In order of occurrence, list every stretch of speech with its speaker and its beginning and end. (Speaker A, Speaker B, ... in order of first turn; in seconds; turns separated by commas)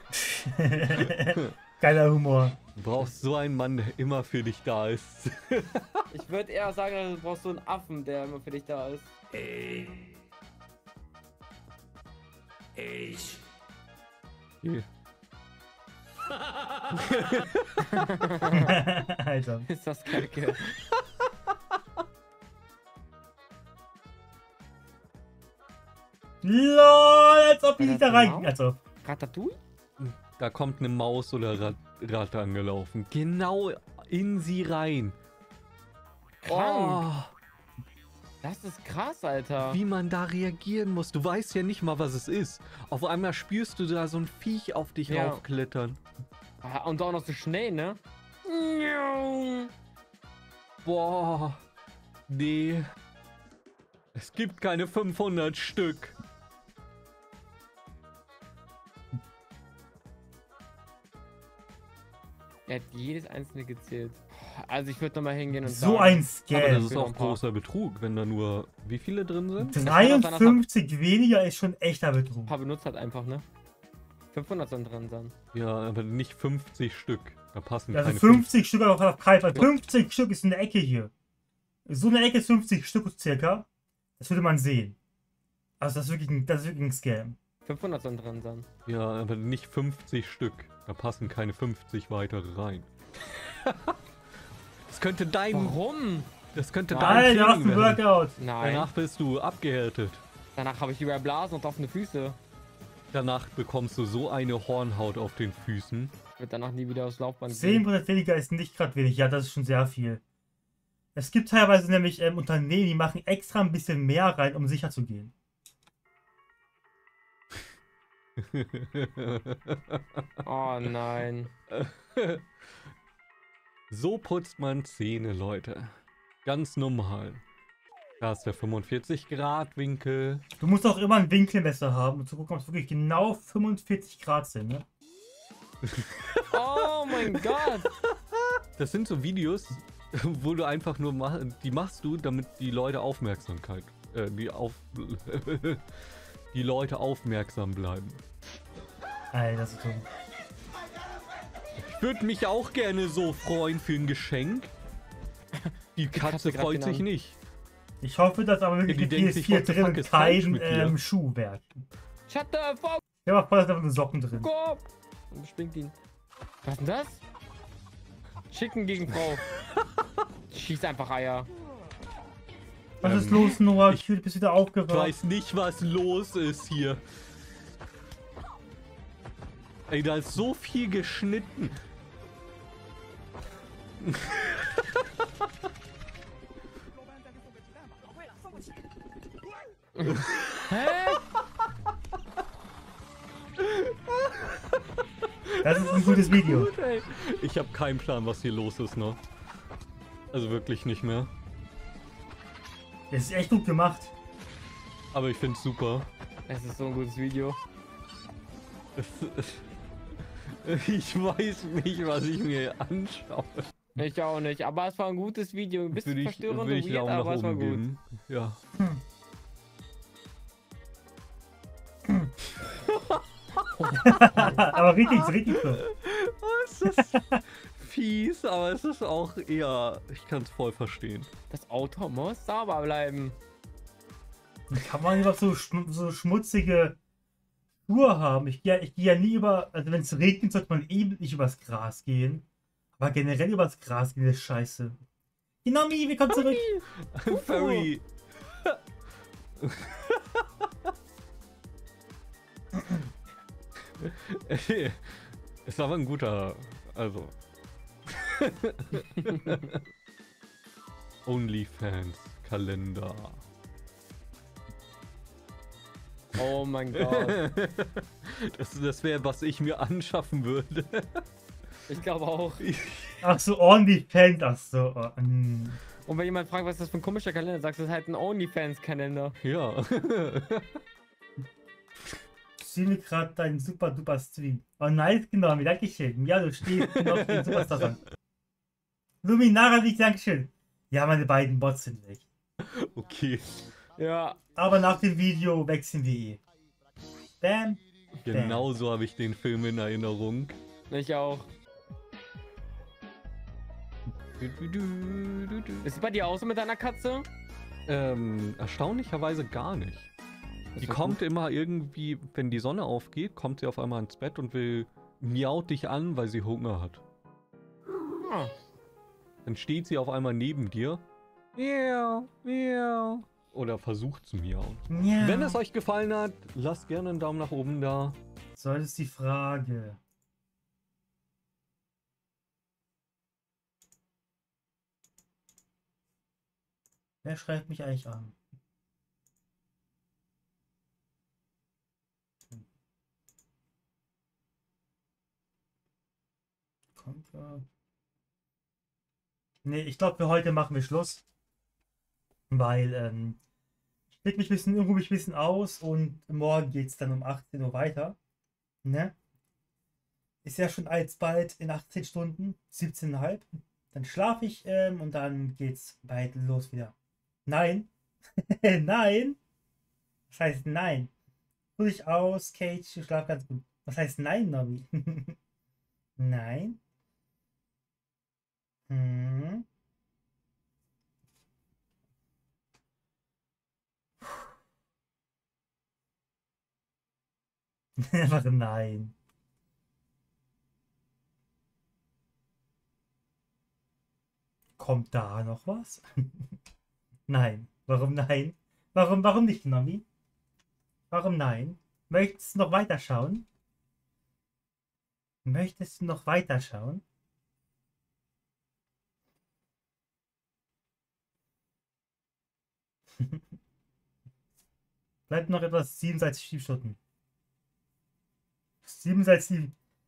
Speaker A: 0.3-2.5, Speaker B: 0.9-1.5, Speaker B: 2.8-6.0, Speaker C: 6.1-9.1, Speaker B: 17.0-17.8, Speaker C: 17.9-18.7, Speaker A: 18.6-19.7, Speaker C: 19.7-20.6, Speaker A: 26.4-28.8, Speaker C: 27.8-28.5, Speaker C: 29.0-29.6, Speaker B: 30.0-35.1, Speaker B: 36.5-37.3, Speaker C: 36.5-37.0, Speaker C: 38.4-39.8, Speaker B: 39.6-46.0, Speaker C: 45.1-45.4, Speaker C: 46.6-49.7, Speaker B: 50.8-51.6, Speaker B: 52.3-52.9, Speaker B: 54.1-56.1, Speaker C: 62.7-67.4, Speaker A: 65.7-66.9, Speaker B: 66.5-69.8, Speaker A: 69.6-72.5, Speaker C: 69.8-70.7, Speaker C: 72.5-73.4, Speaker C: 74.3-75.3, Speaker B: 75.5-78.5, Speaker A: 77.9-81.1, Speaker A: 81.9-83.7, Speaker A: 84.2-85.0, Speaker A: 85.8-87.4, Speaker C: 87.7-88.7, Speaker B: 88.9-92.9, Speaker B: 93.4-93.9, Speaker B: 94.9-95.8, Speaker C: 95.5-96.4, Speaker B: 96.4-100.2, Speaker C: 96.9-97.2, Speaker A: 97.0-98.4, Speaker C: 98.4-98.9, Speaker C: 100.6-102.4, Speaker B: 103.1-106.1, Speaker C: 106.4-107.9, Speaker A: 107.5-110.2, Speaker A: 111.2-115.3, Speaker B: 118.4-120.5, Speaker C: 120.5-121.5, Speaker B: 121.7-122.4, Speaker B: 123.9-127.4, Speaker B: 128.2-130.4, Speaker A: 130.6-134.8, Speaker B: 135.8-138.1, Speaker C: 136.5-137.9, Speaker B: 138.8-145.8, Speaker B: 146.5-148.2, Speaker A: 149.3-150.1, Speaker B: 151.8-154.7, Speaker C: 155.6-157.1, Speaker B: 156.0-157.4, Speaker A: 158.0-161.8, Speaker B: 158.9-161.0, Speaker C: 162.3-163.0, Speaker A: 163.3-164.5, Speaker C: 164.4-165.9, Speaker C: 166.7-167.2, Speaker C: 168.5-169.4, Speaker C: 170.5-171.5, Speaker B: 173.0-174.0, Speaker A: 173.0-175.1, Speaker B: 174.9-177.0, Speaker B: 179.9-181.7, Speaker B: 184.0-184.3, Speaker C: 190.0-191.2, Speaker B: 190.1-190.6, Speaker B: 193.6-194.6, Speaker A: 195.6-196.7, Speaker B: 195.7-199.2, Speaker B: 200.3-201.3, Speaker A: 203.1-204.1, Speaker B: 205.1-206.1, Speaker C: 206.5-207.6, Speaker B: 209.0-209.6, Speaker B: 210.7-213.8, Speaker C: 214.0-217.8, Speaker B: 215.9-218.6, Speaker B: 222.9-231.3, Speaker A: 224.0-225.8, Speaker C: 231.5-233.4, Speaker A: 234.7-237.0, Speaker A: 237.9-242.4, Speaker A: 243.0-245.0, Speaker A: 245.6-246.6, Speaker B: 246.3-248.1, Speaker C: 247.3-247.9, Speaker B: 249.6-250.2, Speaker B: 254.0-257.3, Speaker B: 258.1-259.8, Speaker B: 261.3-263.4, Speaker C: 266.4-267.4, Speaker B: 267.0-271.2, Speaker C: 271.9-272.6, Speaker B: 272.6-273.2, Speaker A: 273.2-275.8, Speaker C: 276.1-279.4, Speaker B: 279.4-280.7, Speaker A: 282.6-288.0, Speaker B: 286.8-288.0, Speaker A: 289.2-292.3, Speaker B: 292.6-293.7, Speaker C: 294.0-294.4, Speaker A: 294.6-296.4, Speaker A: 297.4-298.7, Speaker B: 298.3-300.6, Speaker C: 300.9-301.5, Speaker B: 304.4-305.9, Speaker C: 305.8-307.3, Speaker B: 307.9-310.1, Speaker B: 310.8-317.0, Speaker C: 310.8-311.2, Speaker C: 318.2-318.5, Speaker B: 319.5-321.0, Speaker B: 321.6-328.2, Speaker A: 324.9-325.6, Speaker A: 328.6-330.0, Speaker A: 337.2-338.4, Speaker A: 347.0-347.6, Speaker A: 349.6-351.2, Speaker A: 352.5-353.4, Speaker A: 354.1-358.2, Speaker A: 358.8-359.1, Speaker A: 360.4-366.9, Speaker A: 367.5-367.9, Speaker A: 368.5-369.4, Speaker A: 370.3-371.1, Speaker A: 371.8-375.4, Speaker A: 376.2-376.8, Speaker A: 378.9-379.6, Speaker A: 388.0-389.1, Speaker A: 394.8-396.0, Speaker A: 397.3-400.0, Speaker A: 401.1-403.4, Speaker A: 405.4-407.0, Speaker A: 415.3-417.0, Speaker A: 418.8-419.7